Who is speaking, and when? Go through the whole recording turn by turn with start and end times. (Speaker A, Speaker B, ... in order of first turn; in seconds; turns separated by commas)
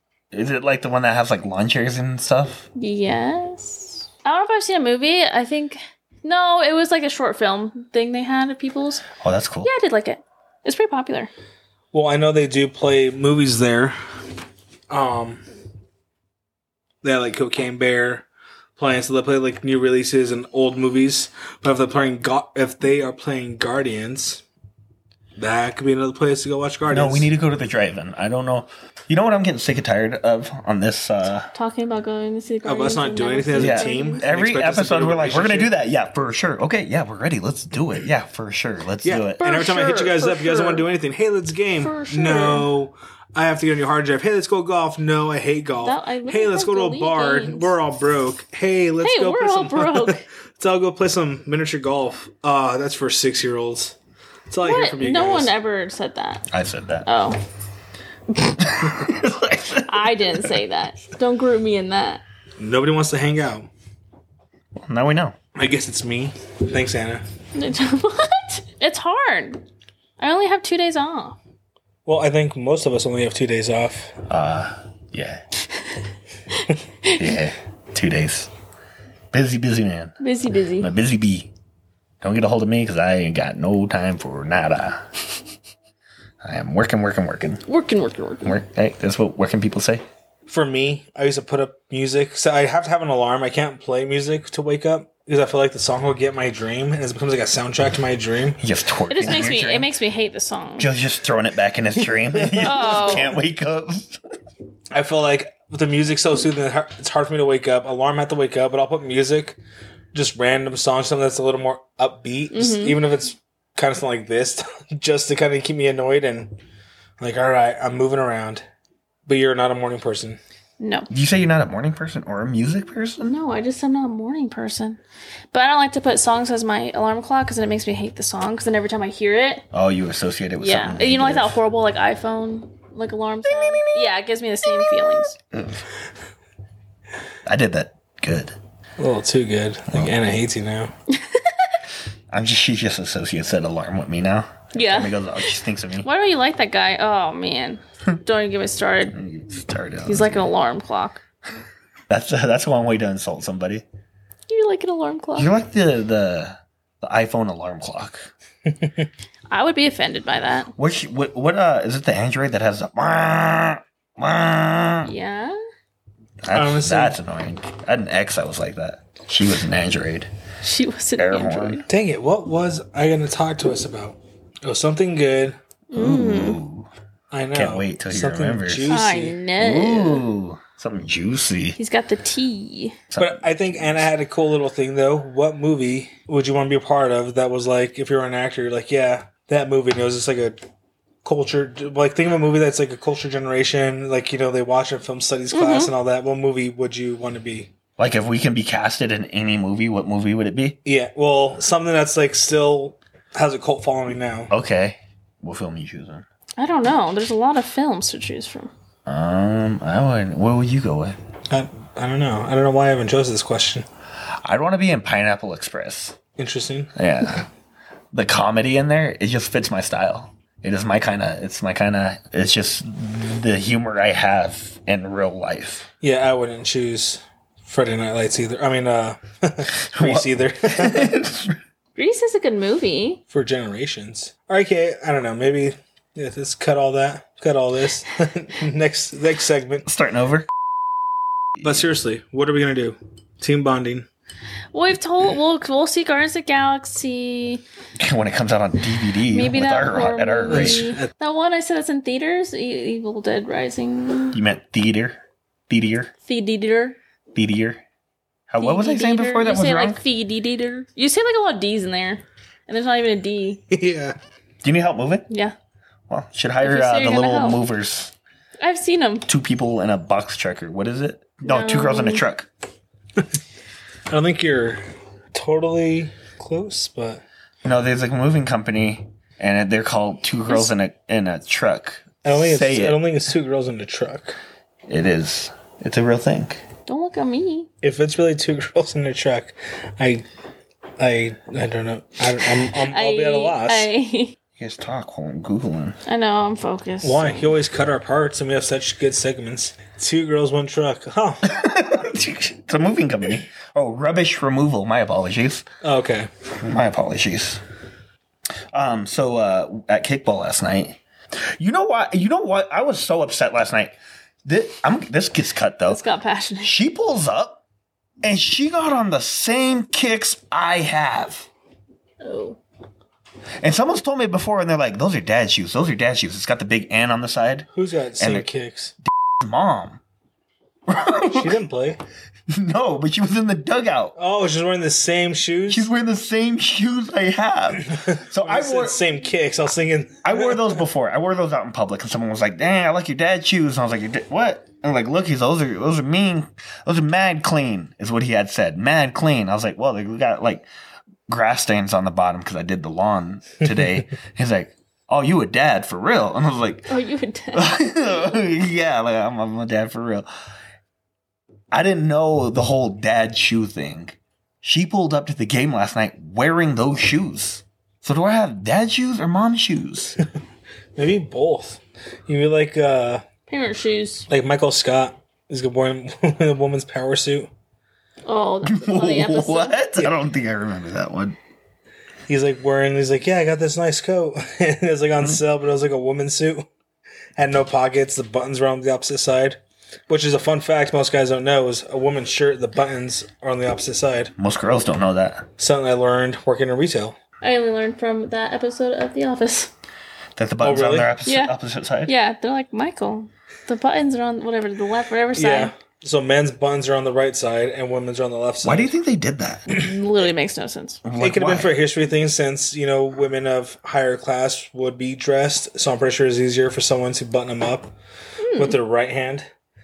Speaker A: 0.3-2.7, Speaker B: 2.7-9.0, Speaker A: 9.2-9.7, Speaker B: 9.6-11.3, Speaker C: 11.9-13.9, Speaker C: 14.9-15.4, Speaker C: 17.0-18.2, Speaker C: 18.8-24.4, Speaker C: 25.4-27.3, Speaker A: 26.9-31.5, Speaker B: 31.5-34.2, Speaker C: 32.6-35.7, Speaker A: 33.5-39.4, Speaker C: 39.0-54.0, Speaker B: 39.4-40.8, Speaker B: 41.8-42.7, Speaker B: 45.8-47.7, Speaker B: 49.0-50.2, Speaker C: 54.5-55.5, Speaker B: 54.6-56.5, Speaker A: 56.5-57.0, Speaker B: 57.0-57.4, Speaker A: 58.6-60.5, Speaker B: 59.9-62.2, Speaker C: 62.6-63.7, Speaker A: 64.8-65.3, Speaker C: 65.5-67.2, Speaker B: 67.5-69.6, Speaker B: 70.2-71.4, Speaker C: 72.0-74.2, Speaker A: 74.3-75.4, Speaker B: 76.5-77.2, Speaker A: 77.1-78.5, Speaker A: 79.3-80.1, Speaker B: 80.2-80.9, Speaker A: 80.8-81.5, Speaker A: 82.2-85.0, Speaker A: 86.4-87.6, Speaker B: 87.7-88.6, Speaker A: 88.4-90.0, Speaker C: 90.5-98.6, Speaker A: 98.6-99.9, Speaker B: 99.1-100.9, Speaker A: 100.8-104.2, Speaker B: 102.6-103.3, Speaker C: 104.9-109.6, Speaker C: 110.1-116.5, Speaker B: 112.5-113.0, Speaker C: 117.2-118.6, Speaker C: 119.2-120.4, Speaker B: 120.8-121.1, Speaker A: 121.1-123.3, Speaker B: 123.2-125.0, Speaker B: 125.5-129.6, Speaker A: 129.7-131.6, Speaker B: 130.6-135.3, Speaker A: 133.4-135.8, Speaker A: 137.4-138.6, Speaker C: 139.0-140.9, Speaker A: 139.9-140.1, Speaker B: 141.1-141.7, Speaker A: 142.3-146.1, Speaker B: 144.7-149.2, Speaker A: 149.1-150.5, Speaker B: 150.0-151.2, Speaker A: 152.1-153.8, Speaker B: 154.5-155.5, Speaker A: 155.3-158.3, Speaker C: 158.7-159.1, Speaker B: 159.5-160.7, Speaker A: 160.8-165.1, Speaker B: 165.0-165.6, Speaker A: 166.4-170.3, Speaker C: 166.5-167.2, Speaker B: 170.6-171.8, Speaker A: 171.2-171.8, Speaker C: 171.9-175.6, Speaker B: 175.9-176.6, Speaker A: 175.9-176.9, Speaker C: 177.3-179.4, Speaker A: 177.5-181.8, Speaker B: 178.9-180.2, Speaker B: 181.8-183.0, Speaker A: 183.1-184.1, Speaker C: 183.2-190.6, Speaker C: 191.2-197.7, Speaker B: 195.5-195.9, Speaker A: 198.0-200.8, Speaker C: 200.8-204.5, Speaker A: 204.5-206.2, Speaker B: 206.6-208.7, Speaker A: 209.1-211.2, Speaker C: 211.5-213.8, Speaker A: 214.4-216.2, Speaker C: 216.4-216.9, Speaker A: 216.9-217.5, Speaker A: 218.1-225.9, Speaker C: 226.0-231.1, Speaker A: 229.9-231.6, Speaker B: 231.9-233.2, Speaker C: 233.3-239.8, Speaker A: 239.8-240.5, Speaker C: 241.6-244.1, Speaker B: 244.7-247.6, Speaker A: 248.0-250.9, Speaker B: 249.3-254.4, Speaker C: 250.5-251.1, Speaker A: 254.3-256.1, Speaker B: 256.2-257.0, Speaker A: 257.3-257.8, Speaker A: 258.5-260.0, Speaker B: 258.6-263.6, Speaker C: 263.7-264.1, Speaker A: 264.6-265.3, Speaker B: 265.3-265.5, Speaker A: 266.1-268.1, Speaker B: 266.6-267.6, Speaker B: 268.6-269.3, Speaker A: 269.3-272.5, Speaker B: 271.4-272.2, Speaker C: 274.1-274.8, Speaker C: 275.3-277.2, Speaker A: 277.6-283.0, Speaker C: 282.2-284.4, Speaker A: 284.9-286.6, Speaker B: 286.9-287.7, Speaker C: 287.8-290.2, Speaker C: 291.0-293.9, Speaker B: 292.8-294.3, Speaker A: 294.6-296.0, Speaker B: 296.1-297.5, Speaker C: 297.0-301.5, Speaker A: 301.4-305.7, Speaker C: 305.8-306.3, Speaker A: 306.6-307.6, Speaker A: 308.7-311.0, Speaker A: 311.6-316.0, Speaker B: 315.9-316.8, Speaker A: 316.6-317.6, Speaker A: 318.2-321.5, Speaker B: 322.2-322.6, Speaker A: 323.6-327.7, Speaker C: 327.7-328.9, Speaker A: 328.2-328.5, Speaker A: 329.0-330.0, Speaker A: 330.9-331.6, Speaker C: 331.3-332.0, Speaker A: 332.5-334.1, Speaker C: 334.1-335.9, Speaker A: 335.7-339.0, Speaker C: 337.9-340.8, Speaker A: 340.2-350.6, Speaker A: 351.3-356.9, Speaker B: 356.9-358.1, Speaker A: 357.5-360.3, Speaker A: 361.7-370.1, Speaker C: 370.9-373.2, Speaker B: 373.5-374.3, Speaker C: 374.3-377.5, Speaker B: 378.2-379.8, Speaker A: 378.6-381.4, Speaker C: 382.3-386.6, Speaker C: 387.4-394.3, Speaker A: 394.4-395.5, Speaker C: 395.6-397.2, Speaker B: 397.4-399.7, Speaker A: 400.4-402.1, Speaker C: 400.6-401.1, Speaker B: 401.2-401.5, Speaker B: 402.1-405.7, Speaker C: 405.3-408.9, Speaker A: 408.6-409.7, Speaker B: 409.7-411.0, Speaker A: 411.0-411.7, Speaker C: 411.2-417.9, Speaker B: 418.4-418.8, Speaker C: 418.5-419.5